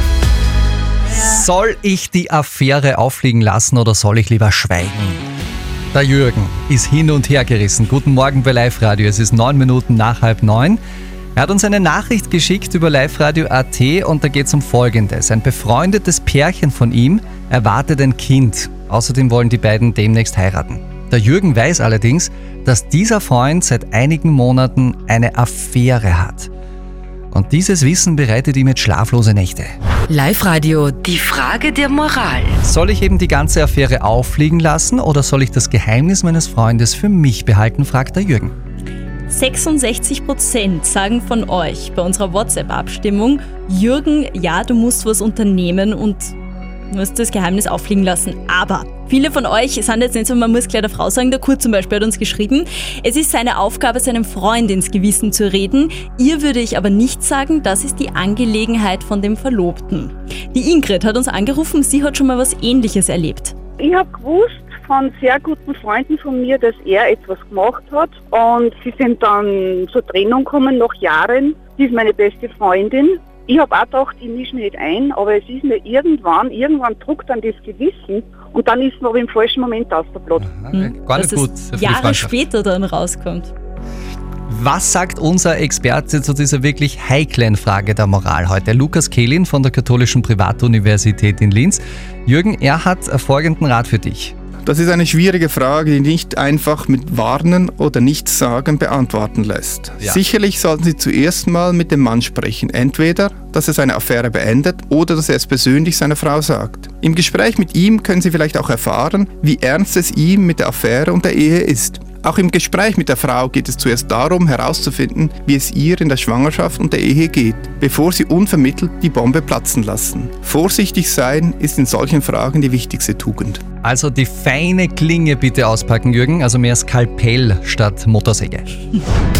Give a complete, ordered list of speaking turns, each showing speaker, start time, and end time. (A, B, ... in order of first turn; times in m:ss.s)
0:01.1-0:05.2 A
0:05.9-0:10.8 A
0:11.4-0:26.5 A
0:27.3-0:29.7 A
0:30.1-0:32.6 B
0:32.6-0:38.5 A
0:39.3-0:46.3 C
0:46.9-1:03.5 C
1:03.8-1:20.5 D
1:20.4-1:22.4 A
1:21.1-1:23.5 C
1:24.5-1:34.3 A
1:34.6-2:03.6 E
2:03.8-2:08.8 A